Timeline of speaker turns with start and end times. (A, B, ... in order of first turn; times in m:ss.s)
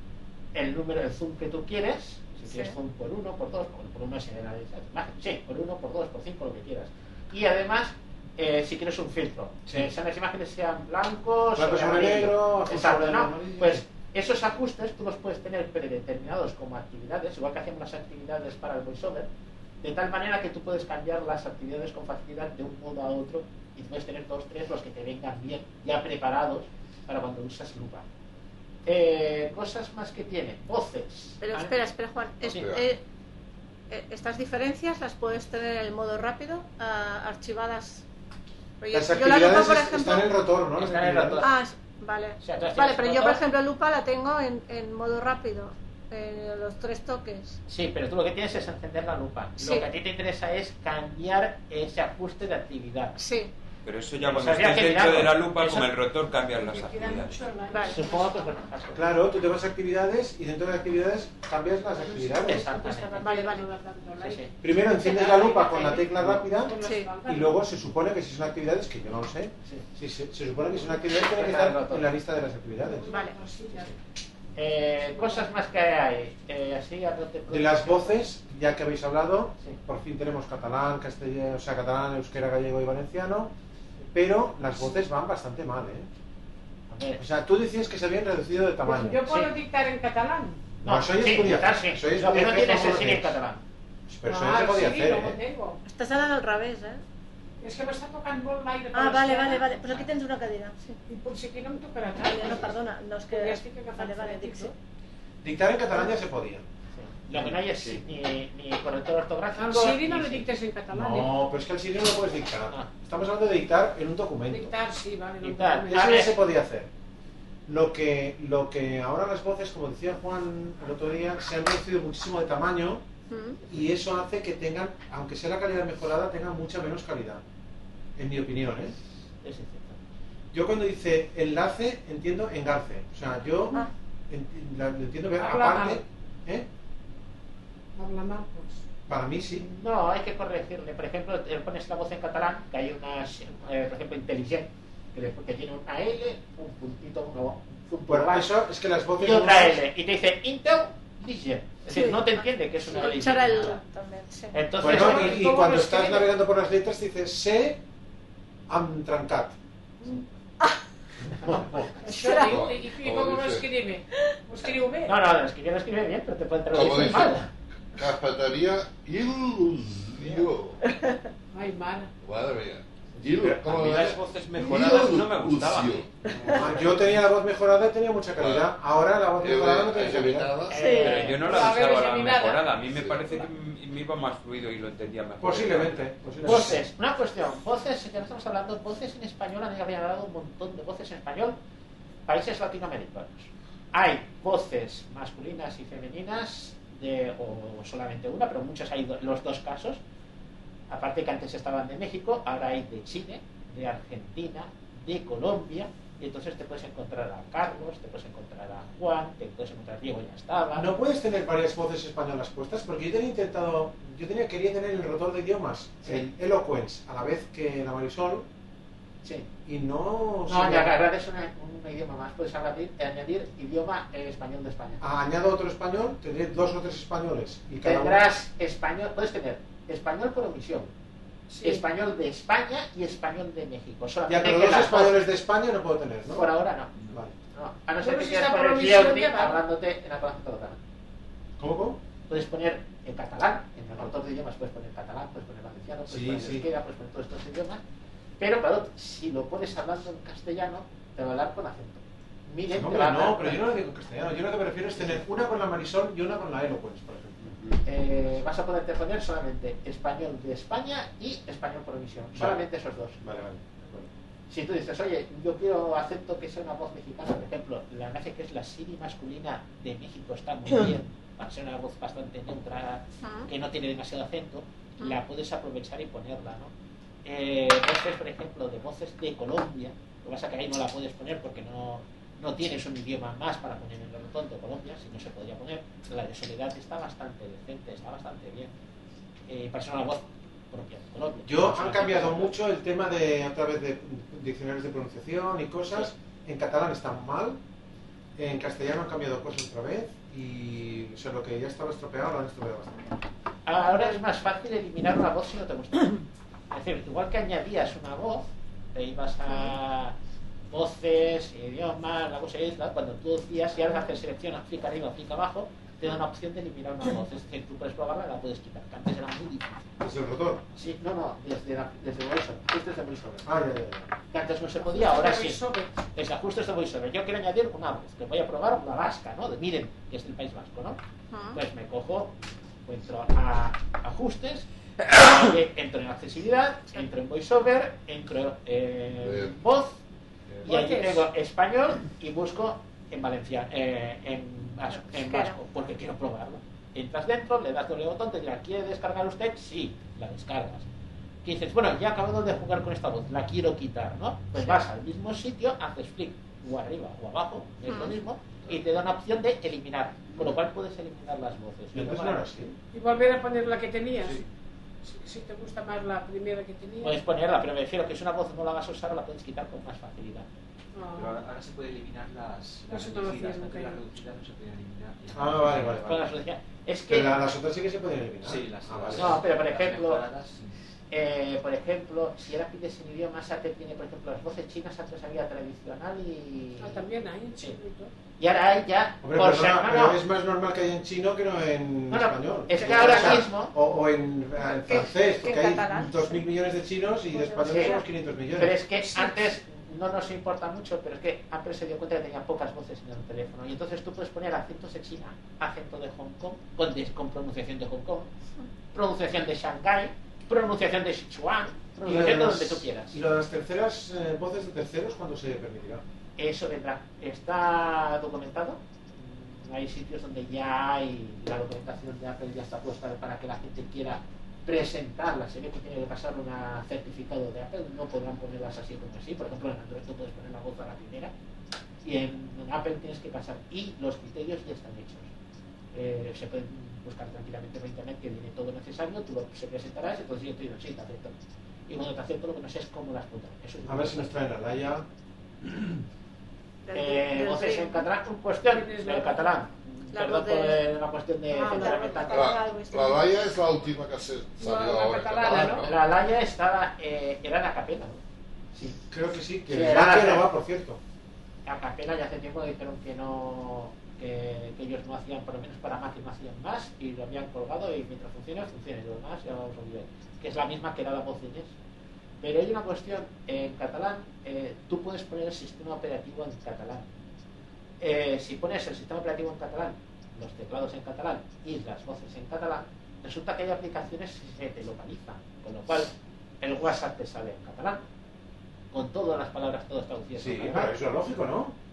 0:00.5-0:19.3 A
0:02.4-0:02.8 B
0:11.5-0:13.8 C
0:19.8-0:28.0 A
0:28.8-0:31.7 A
0:31.4-0:33.0 B
0:32.4-0:32.7 A
0:32.5-0:32.9 D
0:33.9-0:38.0 B
0:38.8-0:40.3 B
0:38.9-0:41.5 C
0:40.8-0:41.5 A
0:41.4-0:47.6 B
0:42.4-0:43.4 A
0:47.7-0:53.2 A
0:49.6-0:49.9 B
0:53.2-0:53.5 B
0:53.8-0:57.4 E
0:54.2-0:55.8 A
0:56.5-0:58.4 F
0:57.7-0:58.0 B
0:57.9-0:59.0 A
0:58.9-1:02.7 C
1:02.0-1:07.6 F
1:02.4-1:03.5 A
1:03.2-1:03.6 B
1:04.2-1:04.5 A
1:04.6-1:13.2 C
1:06.8-1:07.1 B
1:11.2-1:12.1 A
1:12.8-1:13.9 F
1:13.1-1:13.4 B
1:14.6-1:18.2 A
1:17.5-1:23.5 C
1:24.1-1:26.1 C
1:26.9-1:27.2 A
1:27.2-1:29.3 C
1:28.8-1:30.6 F
1:29.2-1:29.5 A
1:30.8-1:33.4 C
1:30.8-1:33.6 A
1:34.1-1:35.4 C
1:34.2-1:35.8 F
1:35.8-1:37.0 B
1:37.6-1:40.0 F
1:38.9-1:41.0 B
1:41.0-1:44.7 F
1:42.2-1:44.7 B
1:45.4-1:46.6 C
1:46.9-1:50.5 A
1:47.3-1:48.0 E
1:49.5-1:51.4 F
1:50.9-1:54.7 C
1:54.5-1:56.3 F
1:55.4-1:56.3 A
1:55.9-1:56.9 C
1:57.7-2:03.0 C
2:03.3-2:03.6 B
2:03.6-2:07.4 C
2:08.2-2:08.9 C
2:09.4-2:10.0 A
2:10.5-2:16.7 C
2:15.4-2:16.0 F
2:17.9-2:18.8 F
2:19.1-2:19.6 C
2:19.6-2:28.5 A
2:28.1-2:29.8 C
2:29.2-2:33.8 A
2:31.9-2:34.7 B
2:34.5-2:35.4 A
2:34.8-2:37.8 C
2:34.8-2:36.3 F
2:38.7-2:39.6 C
2:41.4-2:41.9 A
2:42.0-2:45.2 F
2:42.1-2:42.5 B
2:42.4-2:43.7 D
2:45.0-2:47.5 A
2:46.7-2:50.8 D
2:51.5-2:52.1 F
2:52.2-2:56.8 D
2:53.4-2:57.2 E
2:56.5-3:00.6 C
2:58.4-2:58.7 D
2:59.4-3:00.8 D
3:00.7-3:01.5 A
3:00.7-3:01.2 B
3:00.8-3:02.7 F
3:00.9-3:06.1 E
3:02.9-3:03.2 D
3:05.4-3:06.8 C
3:06.4-3:11.6 A
3:12.2-3:20.0 A
3:20.9-3:30.9 A
3:30.7-3:38.4 C
3:39.2-3:39.5 A
3:39.6-3:41.0 C
3:40.5-3:45.0 A
3:45.0-3:48.2 C
3:47.8-3:50.9 A
3:51.5-3:51.8 F
3:51.6-3:55.2 A
3:54.3-3:56.5 C
3:56.2-3:57.0 A
3:57.0-3:57.3 C
3:57.5-4:00.8 A
3:58.0-3:59.6 F
4:01.6-4:02.0 C
4:02.3-4:07.8 A
4:06.1-4:06.6 C
4:08.4-4:13.7 A
4:12.7-4:17.8 C
4:17.8-4:23.2 A
4:22.3-4:22.6 C
4:23.2-4:24.1 C
4:24.5-4:36.7 A
4:33.2-4:33.5 B
4:37.2-4:48.7 A
4:49.5-4:52.5 A
4:51.4-4:57.6 C
4:58.4-5:03.2 C
5:03.6-5:10.1 A
5:03.8-5:04.2 F
5:10.7-5:19.9 A
5:20.0-5:20.6 C
5:20.7-5:23.5 A
5:23.4-5:24.1 C
5:24.3-5:31.0 A
5:24.8-5:25.9 F
5:31.3-5:31.6 B
5:31.5-5:40.0 A
5:39.2-5:39.5 D
5:40.6-5:41.2 F
5:40.6-5:50.8 A
5:44.9-5:45.6 B
5:51.4-6:02.6 A
5:54.6-5:54.8 B
5:57.9-5:58.1 B
6:01.9-6:02.8 C
6:02.9-6:04.4 F
6:05.0-6:07.2 F
6:07.0-6:10.5 A
6:10.9-6:11.3 F
6:11.1-6:16.2 G
6:12.9-6:14.0 F
6:15.3-6:16.2 C
6:16.0-6:17.5 A
6:17.1-6:19.4 C
6:18.4-6:20.8 G
6:19.1-6:20.2 A
6:21.1-6:27.0 A
6:26.8-6:28.1 F
6:28.4-6:30.2 A
6:29.2-6:38.8 C
6:32.1-6:33.7 A
6:32.8-6:33.2 B
6:34.6-6:36.4 B
6:37.3-6:38.0 B
6:37.6-6:38.0 A
6:38.5-6:48.3 A
6:48.9-6:53.2 A
6:52.0-6:56.0 C
6:56.4-7:11.3 A
7:12.0-7:15.3 A
7:15.9-7:21.3 A
7:21.9-7:24.5 A
7:23.8-7:25.0 C
7:26.8-7:28.0 B
7:26.9-7:32.6 A
7:28.7-7:29.6 F
7:30.1-7:30.8 B
7:31.5-7:33.3 B
7:32.3-7:36.0 D
7:34.6-7:35.9 F
7:35.8-7:38.2 A
7:38.7-7:39.0 A
7:39.1-7:41.0 C
7:39.6-7:40.5 A
7:41.6-7:51.7 A
7:52.4-7:57.1 A
7:58.0-8:08.0 A
8:08.9-8:11.0 A
8:10.3-8:11.7 C